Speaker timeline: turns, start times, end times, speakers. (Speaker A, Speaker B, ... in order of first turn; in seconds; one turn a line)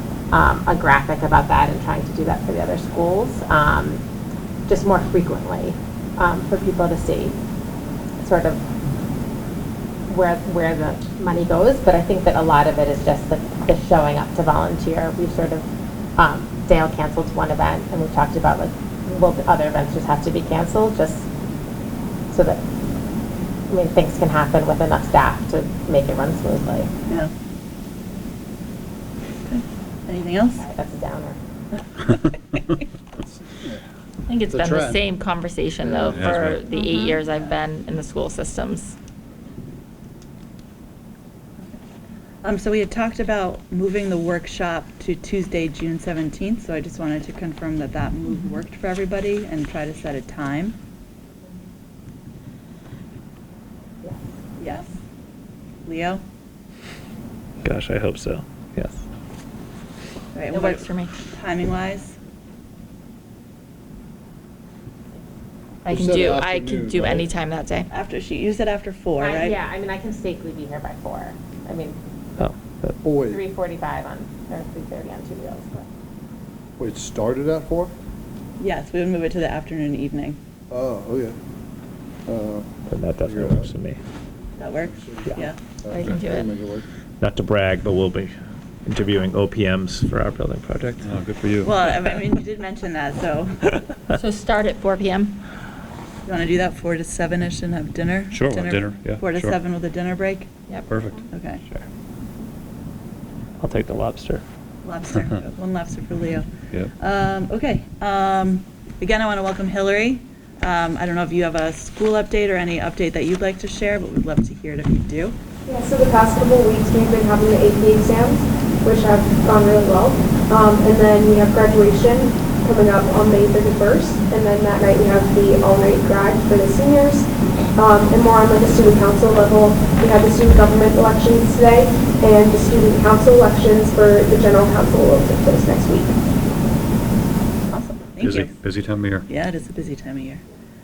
Speaker A: 0.3-4.0
Speaker A: 4.7-7.4
Speaker A: 8.2-8.6
Speaker A: 10.1-15.7
Speaker A: 16.2-21.3
Speaker A: 22.3-22.6
Speaker A: 23.7-26.9
Speaker B: 29.4-30.6
Speaker A: 30.6-31.4
Speaker C: 33.5-33.8
Speaker D: 34.3-39.0
Speaker C: 34.5-35.0
Speaker C: 35.8-36.2
Speaker E: 36.1-36.6
Speaker B: 36.9-37.6
Speaker B: 42.4-50.8
Speaker B: 54.6-54.9
Speaker B: 55.9-56.2
Speaker F: 57.6-59.0
Speaker B: 60.3-62.1
Speaker D: 60.5-61.1
Speaker D: 65.8-67.9
Speaker C: 65.9-67.3
Speaker B: 67.9-69.6
Speaker A: 69.2-72.0
Speaker F: 72.4-73.0
Speaker C: 73.0-73.5
Speaker A: 73.3-75.9
Speaker C: 76.8-77.9
Speaker B: 78.6-80.4
Speaker C: 80.7-81.4
Speaker C: 82.3-82.7
Speaker F: 82.9-84.0
Speaker C: 83.2-83.7
Speaker B: 84.6-85.6
Speaker C: 85.0-86.8
Speaker D: 85.9-86.5
Speaker F: 87.2-88.3
Speaker F: 88.9-91.1
Speaker E: 91.0-91.7
Speaker B: 91.6-93.8
Speaker D: 94.2-95.4
Speaker B: 96.3-100.5
Speaker E: 98.3-99.6
Speaker E: 100.9-101.2
Speaker B: 101.3-101.6
Speaker F: 103.6-104.4
Speaker B: 104.8-106.5
Speaker B: 107.0-115.4
Speaker G: 115.7-136.2
Speaker B: 137.7-138.5
Speaker E: 138.2-139.3
Speaker B: 139.3-140.4